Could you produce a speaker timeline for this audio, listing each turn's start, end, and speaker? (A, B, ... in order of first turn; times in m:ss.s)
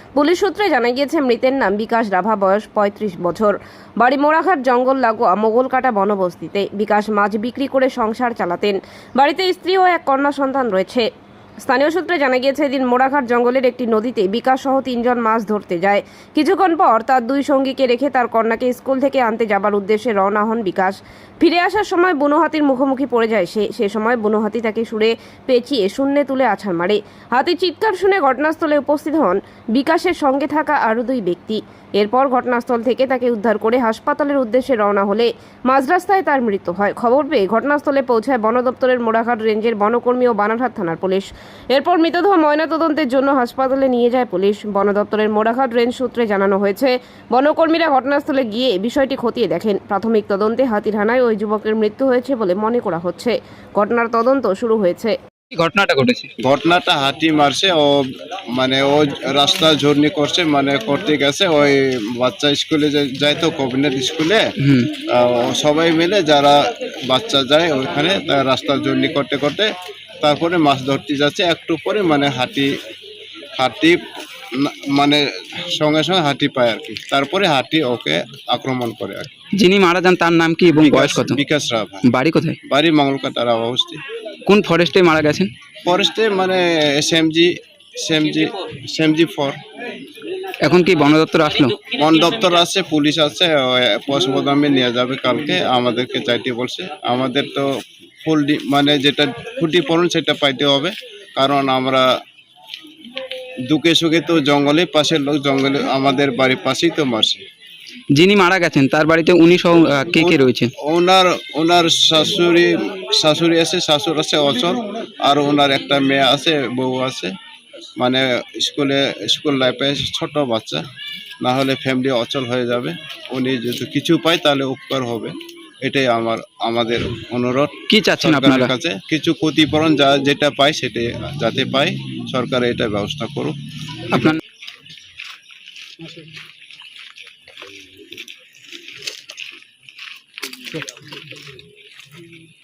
0:00.2-0:11.0 A
0:11.6-0:55.2 A
0:55.5-0:56.3 B
0:56.4-1:04.5 C
1:04.6-1:04.9 B
1:05.0-1:12.7 C
1:13.6-1:19.3 C
1:19.6-1:21.4 B
1:20.8-1:22.0 C
1:22.0-1:22.6 B
1:22.6-1:24.0 C
1:24.4-1:25.5 B
1:25.8-1:29.6 C
1:30.6-1:31.8 B
1:31.9-1:37.7 C
1:38.2-1:42.1 C
1:43.7-1:47.4 C
1:48.2-1:50.7 B
1:50.2-1:57.3 C
1:58.0-2:00.8 C
2:01.4-2:13.6 C
2:07.9-2:08.7 B
2:14.1-2:14.4 B